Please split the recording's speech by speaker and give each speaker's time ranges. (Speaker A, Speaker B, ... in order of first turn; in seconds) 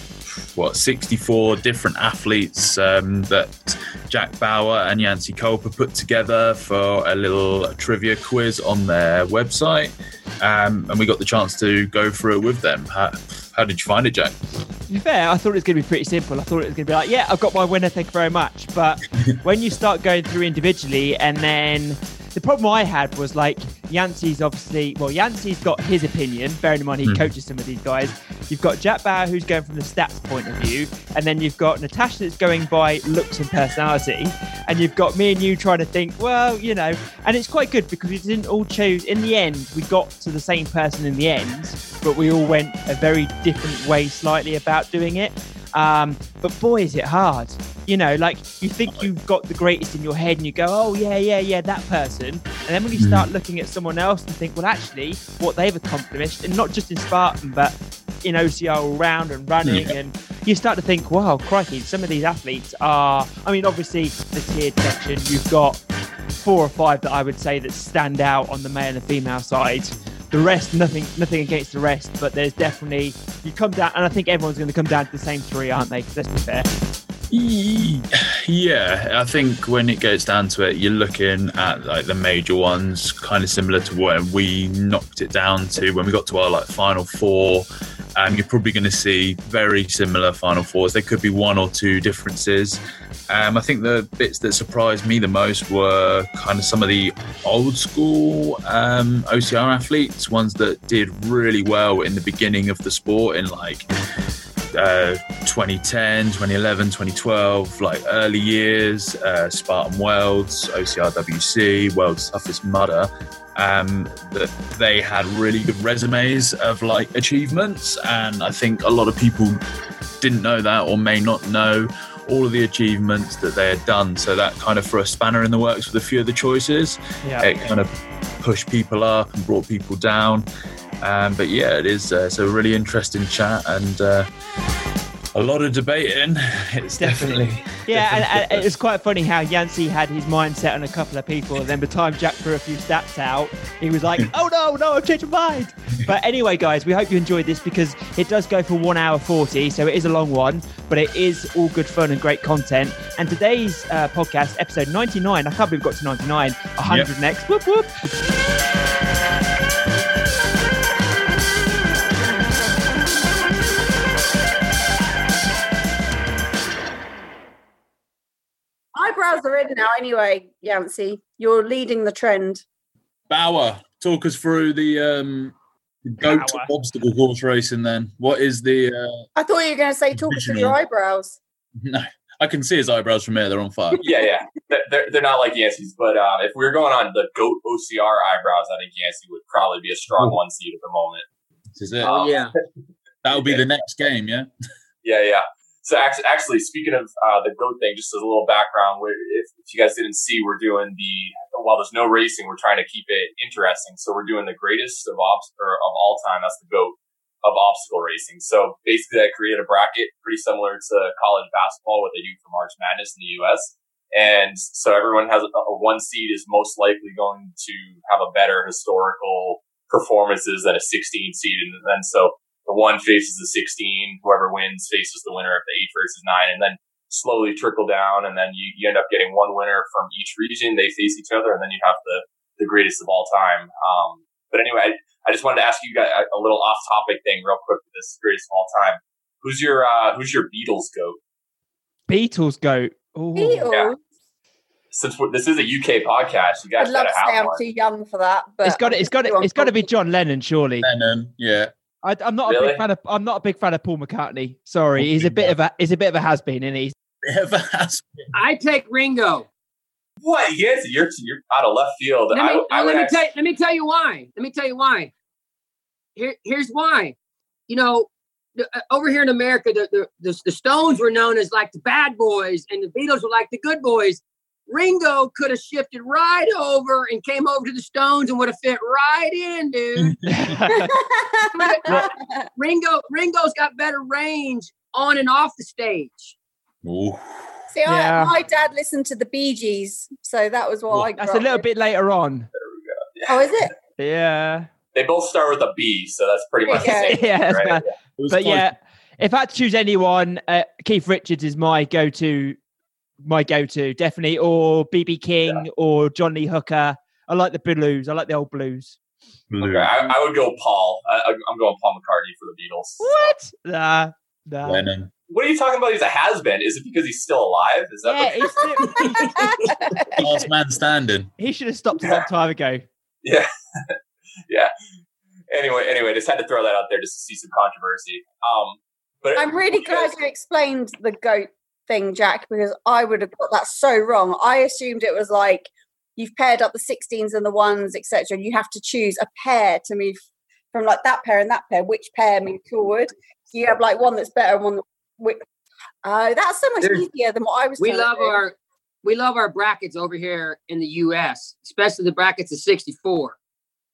Speaker A: 0.5-14.3, 27.0-27.3, 53.0-53.3, 59.6-60.0, 77.3-103.9, 104.7-119.6, 120.2-127.9, 128.4-130.5, 131.0-134.3, 135.3-138.7, 156.8-157.1, 173.3-175.6, 176.1-179.3, 180.2-180.8, 181.8-184.0, 191.8-192.4, 193.2-194.5, 250.8-251.7, 255.0-255.6, 257.2-258.3, 280.0-280.7, 286.8-287.4, 298.2-298.7, 309.5-310.1, 314.6-315.1, 319.0-319.3, 320.2-321.3
Speaker B: 14.9-65.8, 66.3-76.7, 127.2-127.5, 137.0-157.9, 176.2-176.7, 242.1-243.7, 248.6-250.9, 252.0-256.9, 280.3-280.9, 287.9-288.3, 291.2-292.5, 294.0-294.7, 296.8-302.6, 303.2-309.0, 313.0-314.9, 318.0-319.5, 320.2-320.5, 321.4-322.9
Speaker C: 169.0-172.6, 179.4-181.4, 243.4-244.0, 246.8-249.9, 280.8-282.5, 287.7-291.6, 293.3-293.7, 296.7-297.2, 318.8-320.1, 329.4-340.2, 340.7-345.4, 346.0-348.4
Speaker D: 184.0-191.3, 193.3-193.6, 195.0-241.2, 244.9-247.6, 252.4-252.8, 260.2-263.2, 292.6-293.6, 294.9-297.9, 309.6-313.3, 315.3-318.7, 322.0-322.3, 323.2-324.0, 325.5-330.2
Speaker E: 192.0-192.6, 258.3-259.5, 262.3-265.1, 266.2-267.2, 267.7-280.2, 281.6-286.4, 347.8-353.4